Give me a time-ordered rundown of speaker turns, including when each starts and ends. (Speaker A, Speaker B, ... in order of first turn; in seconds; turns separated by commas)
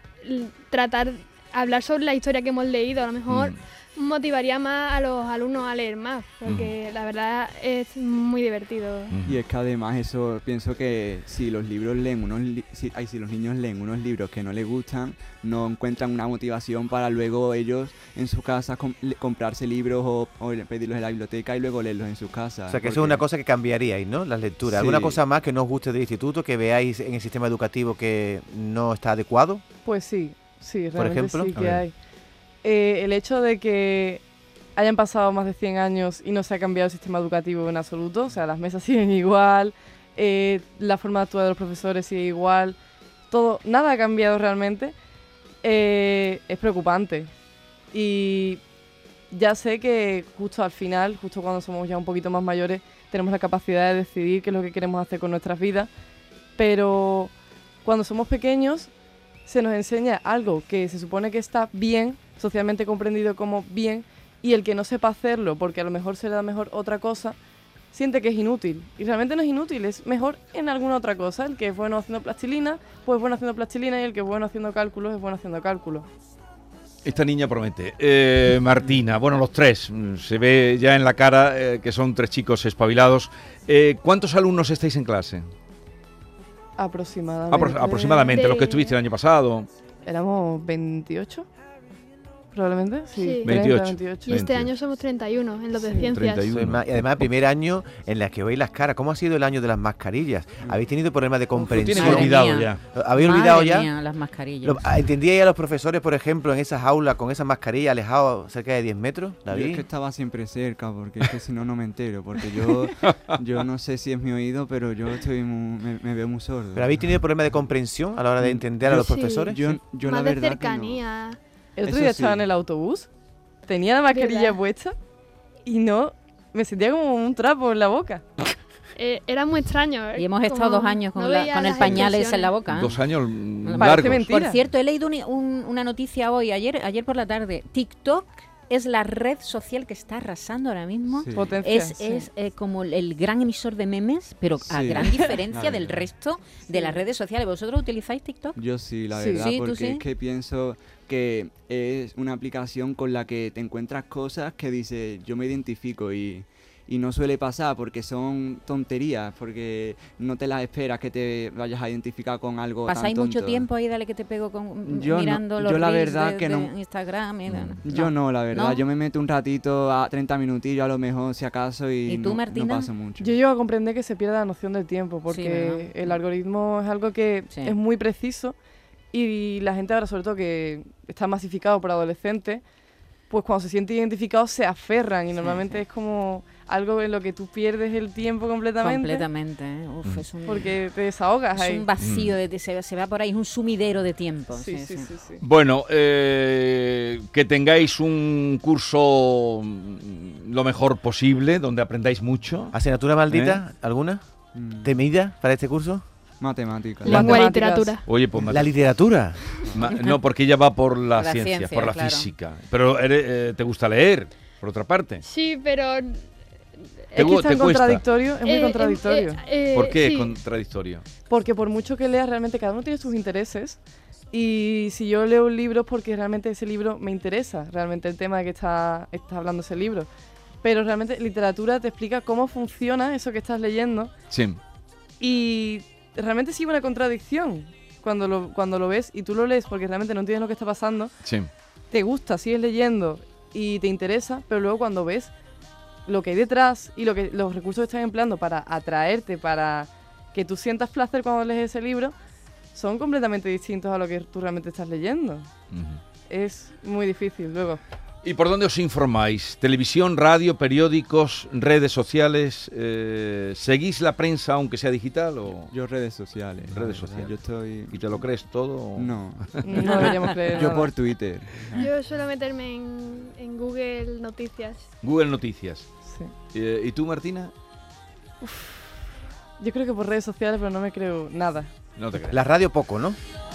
Speaker A: 0.2-9.2, Speaker B: 3.3-3.6, Speaker B: 6.4-6.8, Speaker B: 9.1-9.4, Speaker C: 9.2-23.2, Speaker D: 22.7-29.6, Speaker C: 24.6-25.2, Speaker E: 29.9-31.9, Speaker D: 30.9-31.6, Speaker E: 32.6-34.2, Speaker E: 34.8-42.8, Speaker E: 43.3-45.0, Speaker E: 45.6-47.3, Speaker E: 47.9-48.6, Speaker E: 49.3-55.9, Speaker E: 56.6-57.3, Speaker E: 57.8-58.9, Speaker E: 59.5-67.4, Speaker E: 67.9-76.1, Speaker B: 77.0-85.5, Speaker E: 86.8-88.4, Speaker B: 87.5-89.7, Speaker A: 88.3-89.0, Speaker E: 90.0-91.5, Speaker E: 92.5-94.4, Speaker A: 93.2-93.6, Speaker B: 93.5-94.7, Speaker A: 94.2-96.5, Speaker E: 95.8-96.2, Speaker B: 96.0-97.2, Speaker D: 96.5-103.9, Speaker F: 101.7-104.9, Speaker B: 101.7-102.8, Speaker D: 104.6-109.9, Speaker C: 109.5-117.0, Speaker B: 113.0-113.3, Speaker D: 116.8-119.7, Speaker C: 118.4-121.1, Speaker A: 119.0-121.4, Speaker E: 121.8-123.1, Speaker C: 121.8-122.5, Speaker E: 123.7-125.0, Speaker A: 124.1-124.6, Speaker E: 125.7-128.4, Speaker A: 129.0-132.6, Speaker F: 130.2-133.0, Speaker B: 132.7-134.3, Speaker F: 133.6-148.6, Speaker E: 133.8-134.6, Speaker C: 141.1-141.6, Speaker E: 141.3-142.3, Speaker C: 144.6-146.1, Speaker E: 146.7-147.0, Speaker C: 148.6-163.7, Speaker E: 149.1-149.5, Speaker F: 149.3-150.0, Speaker F: 162.9-168.9, Speaker C: 164.8-166.8, Speaker B: 167.5-167.8, Speaker C: 167.8-173.3, Speaker F: 172.1-172.9, Speaker E: 173.2-178.6, Speaker F: 175.3-176.2, Speaker E: 179.1-182.6, Speaker E: 183.3-189.3, Speaker F: 185.4-185.8, Speaker F: 188.8-190.7, Speaker E: 190.4-191.9, Speaker F: 191.5-195.1, Speaker B: 192.0-192.4, Speaker E: 194.5-195.4, Speaker B: 195.4-202.7, Speaker D: 202.7-204.2, Speaker B: 203.3-203.6, Speaker C: 204.5-205.1, Speaker D: 204.8-206.0, Speaker C: 206.4-207.3, Speaker E: 207.0-208.0, Speaker A: 207.0-208.0, Speaker B: 208.0-208.8, Speaker D: 208.5-209.4, Speaker B: 209.7-215.2, Speaker F: 209.8-210.2, Speaker F: 211.2-212.3, Speaker A: 215.2-216.2, Speaker B: 217.2-218.0, Speaker E: 217.2-219.4, Speaker A: 218.4-220.3, Speaker B: 219.7-221.1, Speaker E: 221.3-223.8, Speaker E: 224.3-230.1, Speaker E: 230.6-234.1, Speaker B: 234.3-234.6, Speaker E: 235.2-241.2, Speaker B: 241.2-241.5, Speaker E: 241.9-245.3, Speaker E: 246.1-252.1, Speaker E: 252.7-255.5, Speaker B: 255.7-256.0, Speaker E: 256.3-257.8, Speaker B: 258.2-265.7, Speaker C: 265.7-268.3, Speaker B: 266.7-267.4, Speaker B: 267.9-269.9, Speaker C: 268.9-271.9, Speaker E: 269.6-270.9, Speaker A: 271.8-274.9, Speaker B: 275.0-275.9, Speaker E: 276.1-276.3, Speaker B: 276.5-277.5, Speaker E: 278.4-278.9, Speaker E: 279.6-281.7, Speaker B: 282.0-282.4, Speaker D: 282.2-283.2